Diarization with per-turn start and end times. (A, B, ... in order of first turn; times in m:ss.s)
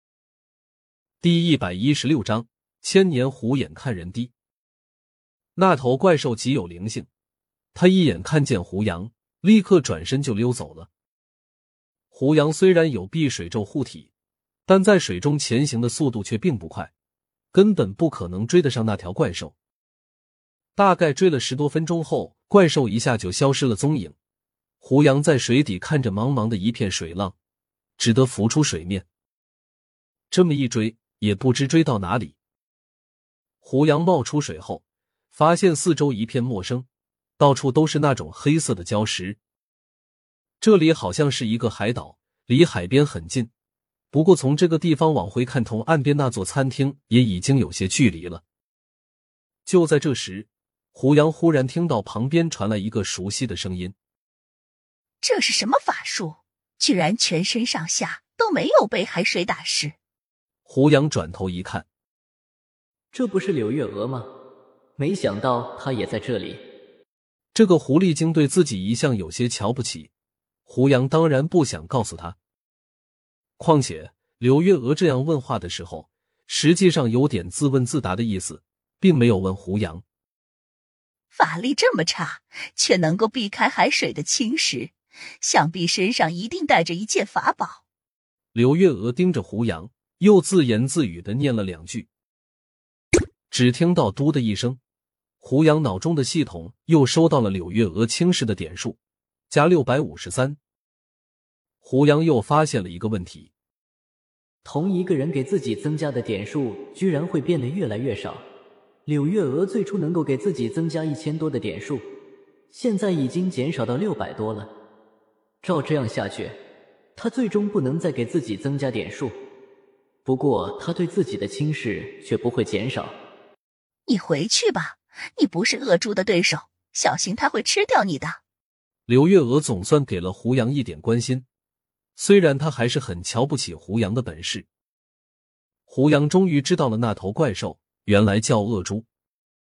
0:01.2-0:04.3 A
0:05.6-0:07.1 A
0:07.8-0:10.9 A
0:12.1-0:14.1 A
0:14.7-0:16.9 A
0:17.5-0:19.6 A
0:20.8-0:24.2 A
0:24.8-0:27.4 A
0:28.0-0:29.1 A
0:30.3-0:32.4 A
0:33.6-0:36.9 A
0:37.4-0:39.4 A
0:40.6-0:43.5 A
0:44.1-0:48.4 A
0:49.7-0:53.9 A
0:55.2-1:00.0 B
1:00.7-1:01.9 A
1:03.1-1:04.3 C
1:05.0-1:06.6 C
1:07.5-1:10.1 A
1:10.7-1:12.4 A
1:13.6-1:20.0 A
1:21.3-1:27.8 B
1:28.5-1:32.1 A
1:33.5-1:34.8 A
1:35.4-1:39.0 A
1:39.5-1:40.6 A
1:41.8-1:43.5 A
1:44.6-1:48.4 C
1:49.1-1:52.0 C
1:52.7-1:54.7 C
1:55.6-1:56.6 C
1:57.2-1:59.3 C
2:00.3-2:03.1 C
2:04.1-2:08.4 B
2:09.1-2:11.4 A
2:12.2-2:14.7 A
2:15.9-2:19.1 A